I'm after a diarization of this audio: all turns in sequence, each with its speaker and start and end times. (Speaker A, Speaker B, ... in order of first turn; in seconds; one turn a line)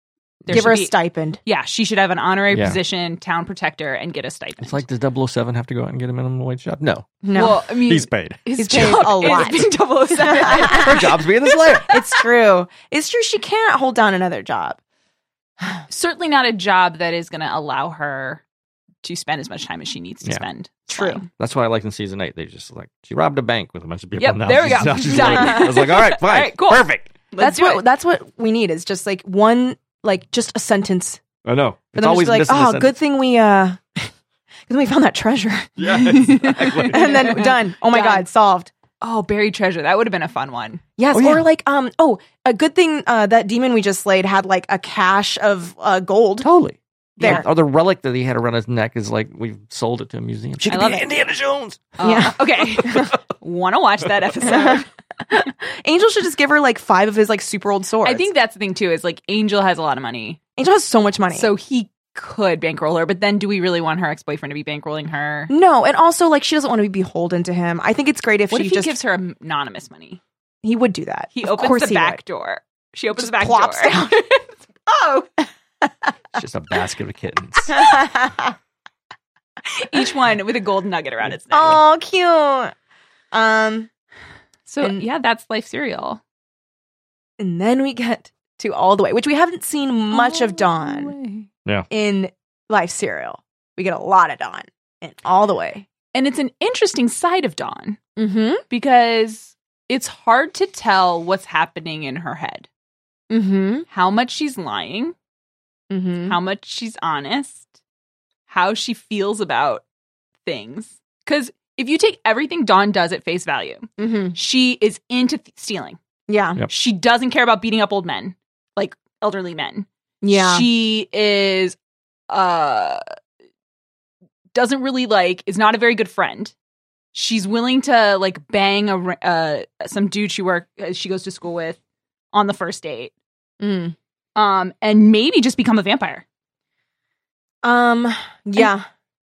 Speaker A: 0.5-4.8
Speaker B: 0.5-1.4
Speaker C: 2.5-2.8
Speaker C: 4.6-9.4
Speaker B: 7.2-7.6
Speaker A: 7.3-11.9
Speaker B: 8.6-11.1
Speaker C: 10.5-12.0
Speaker B: 11.8-14.8
Speaker A: 15.9-18.4
Speaker A: 19.0-21.3
Speaker B: 20.9-21.2
Speaker C: 21.3-27.1
Speaker A: 24.2-27.8
Speaker B: 25.1-25.7
Speaker B: 27.4-31.2
Speaker C: 31.4-32.9
Speaker B: 31.9-34.1
Speaker B: 34.7-38.7
Speaker C: 35.8-37.2
Speaker A: 35.9-38.3
Speaker A: 39.0-40.8
Speaker B: 41.0-46.5
Speaker C: 41.1-41.5
Speaker C: 46.4-52.0
Speaker B: 47.2-47.5
Speaker A: 47.2-47.5
Speaker A: 50.6-51.1
Speaker A: 52.0-54.9
Speaker B: 52.0-53.1
Speaker B: 54.5-58.3
Speaker A: 58.0-60.4
Speaker B: 60.6-61.5
Speaker A: 61.3-65.5
Speaker B: 65.5-68.9
Speaker A: 68.5-70.2
Speaker B: 70.6-72.2
Speaker A: 71.3-75.3
Speaker B: 73.2-74.2
Speaker C: 76.3-77.8
Speaker B: 77.7-78.5
Speaker A: 79.7-81.8
Speaker B: 81.5-82.7
Speaker B: 83.3-83.9
Speaker A: 84.7-86.2
Speaker B: 87.4-91.2
Speaker A: 90.1-91.5
Speaker B: 91.9-95.9
Speaker A: 96.1-98.0
Speaker B: 98.2-98.6
Speaker A: 98.7-102.7
Speaker B: 103.3-103.9
Speaker A: 103.9-105.2
Speaker B: 105.9-106.4
Speaker A: 106.2-107.7
Speaker A: 108.5-109.8
Speaker A: 110.4-116.0
Speaker B: 114.0-114.4
Speaker B: 116.3-116.6
Speaker A: 116.7-121.8
Speaker B: 120.2-120.7
Speaker A: 122.3-123.0
Speaker A: 124.5-126.5
Speaker A: 127.1-131.8
Speaker A: 132.3-133.1
Speaker B: 133.6-133.9
Speaker A: 134.4-136.2
Speaker B: 137.6-138.8